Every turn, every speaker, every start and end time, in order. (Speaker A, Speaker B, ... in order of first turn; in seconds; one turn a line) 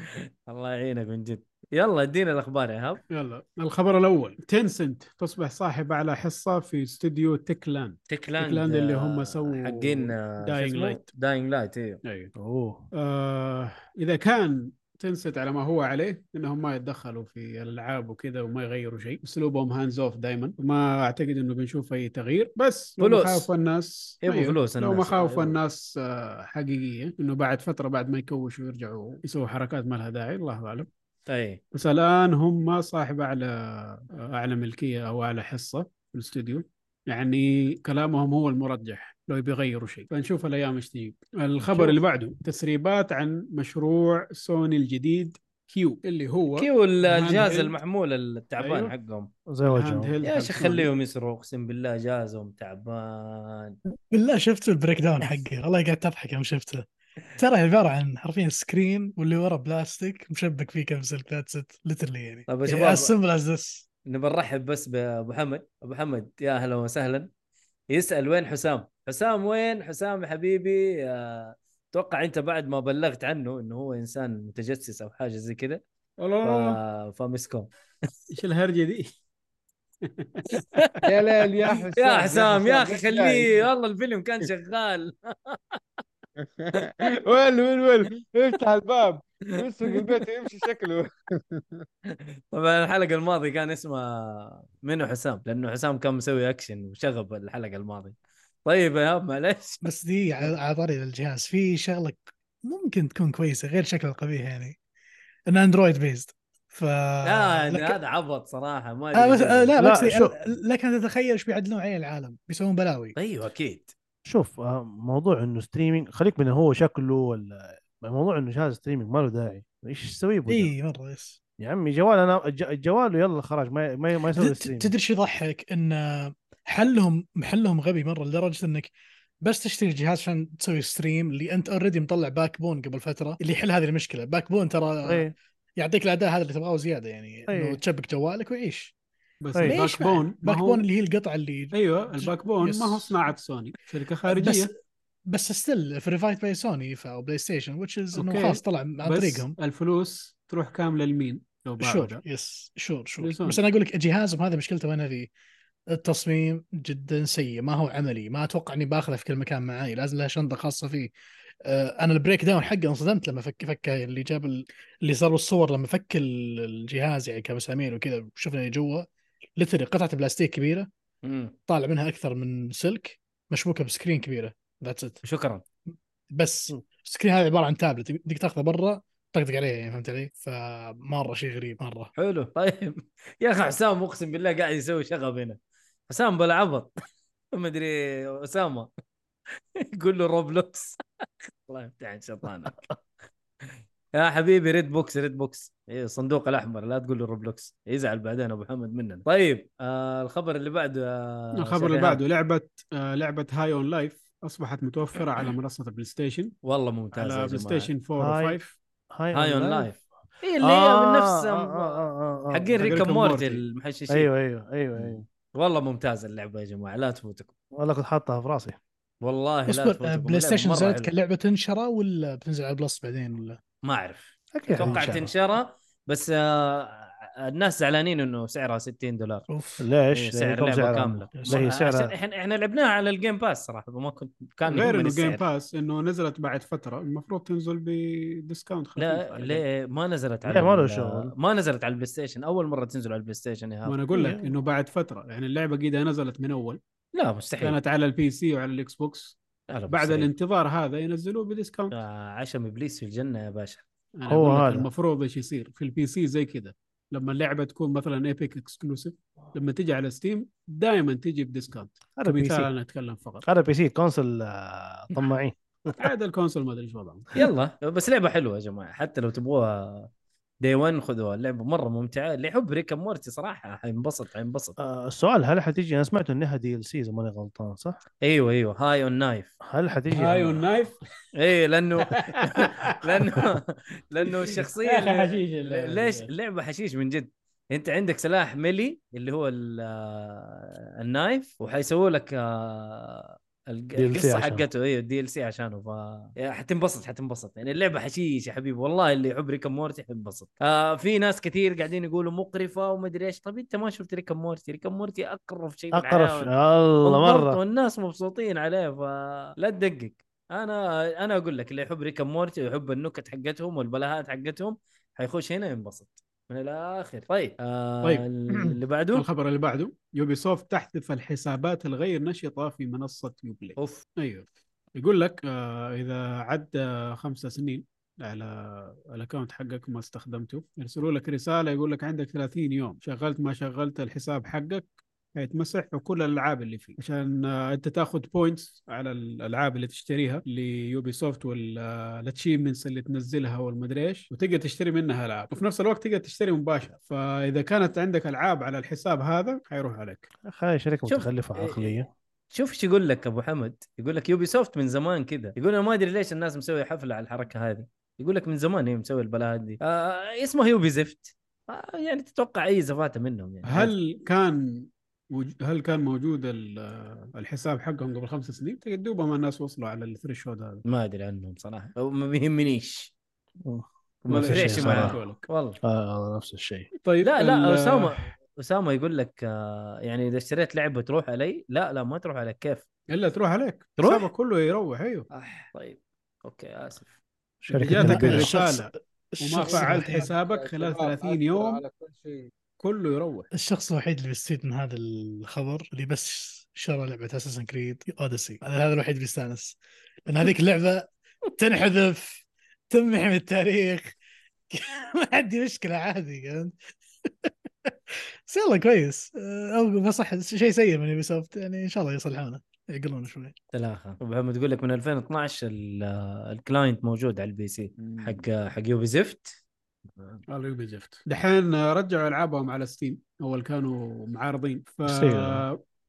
Speaker A: 0.5-3.0
Speaker B: 3.1-11.0
Speaker A: 8.1-12.0
Speaker B: 12.0-12.3
Speaker C: 12.4-12.8
Speaker B: 13.0-30.9
Speaker A: 23.0-23.5
Speaker A: 24.2-25.6
Speaker A: 31.3-31.6
Speaker B: 31.7-47.8
Speaker A: 46.6-49.3
Speaker B: 48.6-48.9
Speaker C: 49.5-50.1
Speaker B: 49.6-50.9
Speaker A: 50.2-53.8
Speaker D: 54.1-56.8
Speaker D: 57.4-63.9
Speaker A: 62.5-63.1
Speaker A: 64.1-67.3
Speaker A: 67.9-75.8
Speaker B: 76.2-76.8
Speaker A: 76.4-77.7
Speaker B: 78.3-79.1
Speaker B: 80.0-81.0
Speaker E: 81.1-83.7
Speaker A: 81.7-85.8
Speaker E: 86.4-91.6
Speaker A: 89.8-90.2
Speaker A: 92.1-99.8
Speaker D: 99.8-104.8
Speaker D: 105.5-108.0
Speaker A: 107.2-109.7
Speaker D: 109.2-113.2
Speaker C: 109.8-110.4
Speaker A: 113.2-113.9
Speaker C: 114.3-120.7
Speaker D: 120.5-121.4
Speaker C: 121.6-124.9
Speaker D: 124.4-138.9
Speaker C: 135.1-135.3
Speaker C: 137.5-137.8
Speaker B: 139.4-140.8
Speaker D: 139.7-143.2
Speaker B: 141.7-144.7
Speaker D: 144.3-144.7
Speaker D: 145.3-149.6
Speaker B: 148.1-152.2
Speaker D: 151.8-155.3
Speaker B: 153.2-153.6
Speaker D: 155.9-161.1
Speaker D: 161.7-170.9
Speaker A: 171.2-171.6
Speaker D: 171.7-175.2
Speaker A: 175.2-175.6
Speaker D: 176.3-182.1
Speaker A: 182.2-186.9
Speaker A: 187.5-188.9
Speaker A: 189.8-192.9
Speaker A: 193.6-202.2
Speaker B: 201.6-206.5
Speaker A: 206.6-207.9
Speaker B: 207.1-208.8
Speaker C: 208.2-208.6
Speaker C: 209.2-210.1
Speaker A: 209.3-214.3
Speaker C: 210.6-212.9
Speaker B: 212.8-213.6
Speaker C: 214.1-215.2
Speaker A: 215.0-217.5
Speaker C: 217.8-218.8
Speaker A: 219.2-221.1
Speaker D: 219.7-223.6
Speaker A: 223.8-229.4
Speaker C: 224.5-225.3
Speaker D: 229.5-229.9
Speaker C: 229.8-232.1
Speaker A: 230.1-235.4
Speaker B: 234.7-239.6
Speaker A: 239.0-244.0
Speaker C: 240.5-241.3
Speaker B: 243.9-246.8
Speaker A: 247.2-247.8
Speaker B: 247.6-249.4
Speaker A: 249.7-250.3
Speaker B: 249.9-252.0
Speaker A: 251.9-253.8
Speaker B: 254.2-263.4
Speaker C: 254.3-254.9
Speaker C: 262.2-262.7
Speaker C: 263.4-266.1
Speaker B: 266.0-267.3
Speaker A: 267.4-270.1
Speaker A: 270.6-274.8
Speaker C: 274.8-278.0
Speaker A: 278.2-279.5
Speaker C: 279.6-280.7
Speaker B: 280.1-281.0
Speaker A: 281.3-306.5
Speaker B: 282.1-283.2
Speaker B: 284.2-286.3
Speaker C: 294.0-294.6
Speaker C: 305.9-307.6
Speaker A: 307.0-319.3
Speaker B: 318.0-324.4
Speaker A: 323.8-324.0
Speaker B: 325.0-350.3
Speaker C: 350.5-352.1
Speaker A: 351.1-352.0
Speaker A: 352.5-363.9
Speaker B: 363.6-370.8
Speaker A: 370.9-373.1
Speaker C: 373.6-375.2
Speaker A: 374.2-375.8
Speaker B: 374.4-375.4
Speaker C: 375.8-376.9
Speaker B: 377.0-378.3
Speaker A: 377.2-382.9
Speaker B: 383.1-385.2
Speaker A: 384.0-384.3
Speaker A: 385.3-387.2
Speaker C: 387.7-388.6
Speaker B: 387.7-391.8
Speaker D: 387.8-390.3
Speaker E: 389.6-392.5
Speaker B: 392.8-393.5
Speaker D: 393.5-404.1
Speaker D: 404.7-413.5
Speaker A: 413.7-419.6
Speaker B: 418.0-418.4
Speaker B: 420.5-425.8
Speaker C: 425.1-425.6